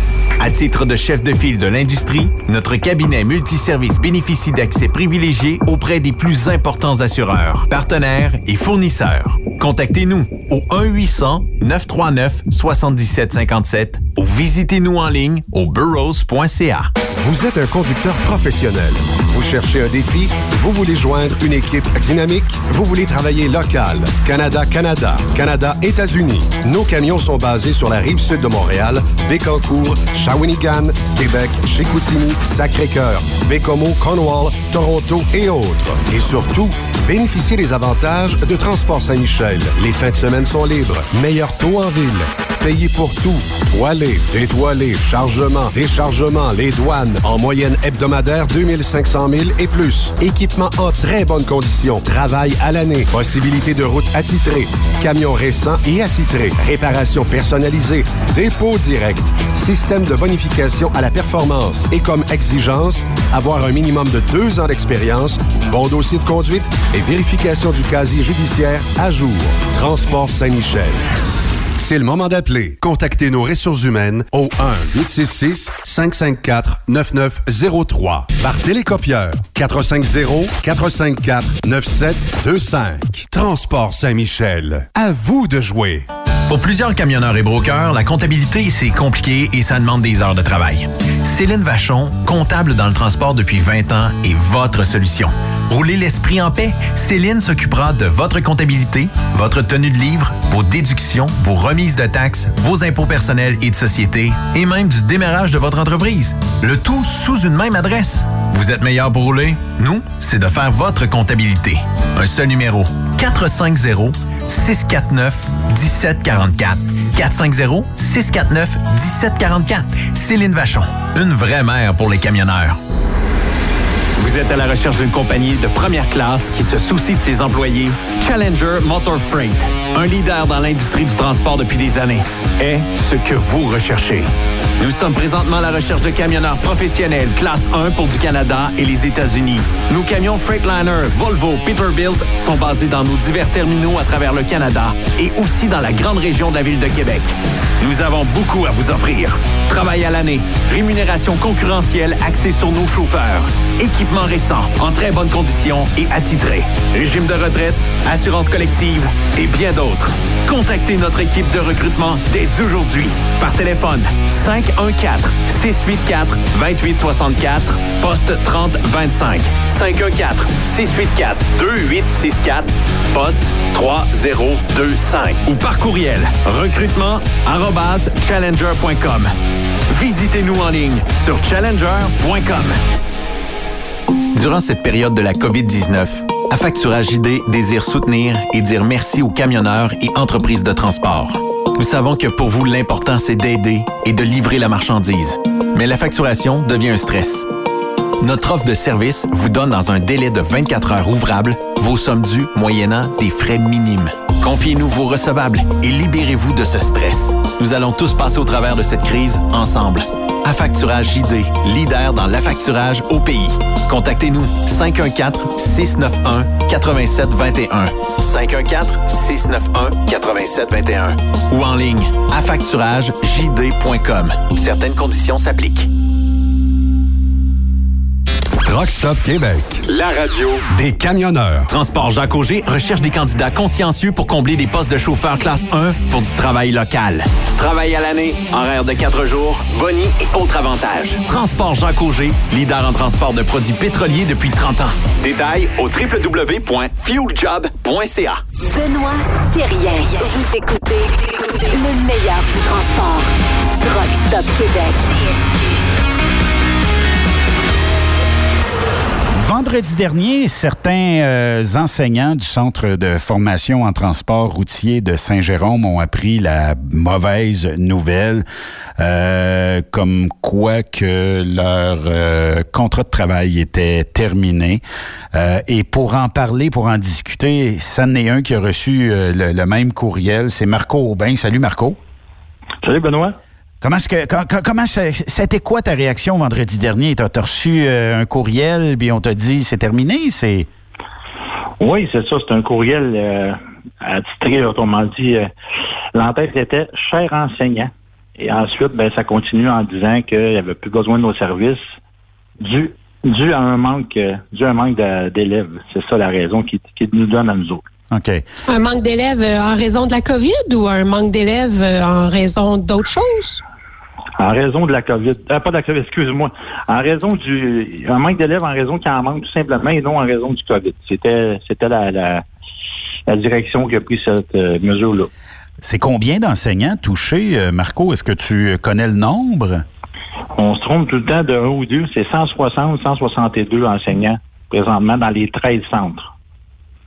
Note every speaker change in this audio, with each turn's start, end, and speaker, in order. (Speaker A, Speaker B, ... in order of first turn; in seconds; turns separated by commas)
Speaker A: 0.4-16.9, Speaker B: 17.2-71.0, Speaker B: 71.8-86.1, Speaker A: 86.5-122.8, Speaker A: 124.2-134.3, Speaker A: 134.8-179.3, Speaker A: 179.9-182.8, Speaker A: 184.3-197.5, Speaker A: 198.2-225.9, Speaker B: 228.6-229.8, Speaker A: 229.9-230.7, Speaker B: 230.7-231.7, Speaker A: 231.7-248.4, Speaker C: 248.7-255.8, Speaker D: 259.4-268.4, Speaker D: 269.0-274.8, Speaker D: 275.3-282.0, Speaker E: 282.8-283.4, Speaker D: 283.8-290.7, Speaker E: 291.8-295.5, Speaker E: 296.1-301.8, Speaker E: 302.6-307.9, Speaker D: 308.1-308.4, Speaker F: 308.7-313.6, Speaker E: 314.4-322.4, Speaker E: 323.3-325.3, Speaker D: 325.8-329.8, Speaker E: 330.6-336.3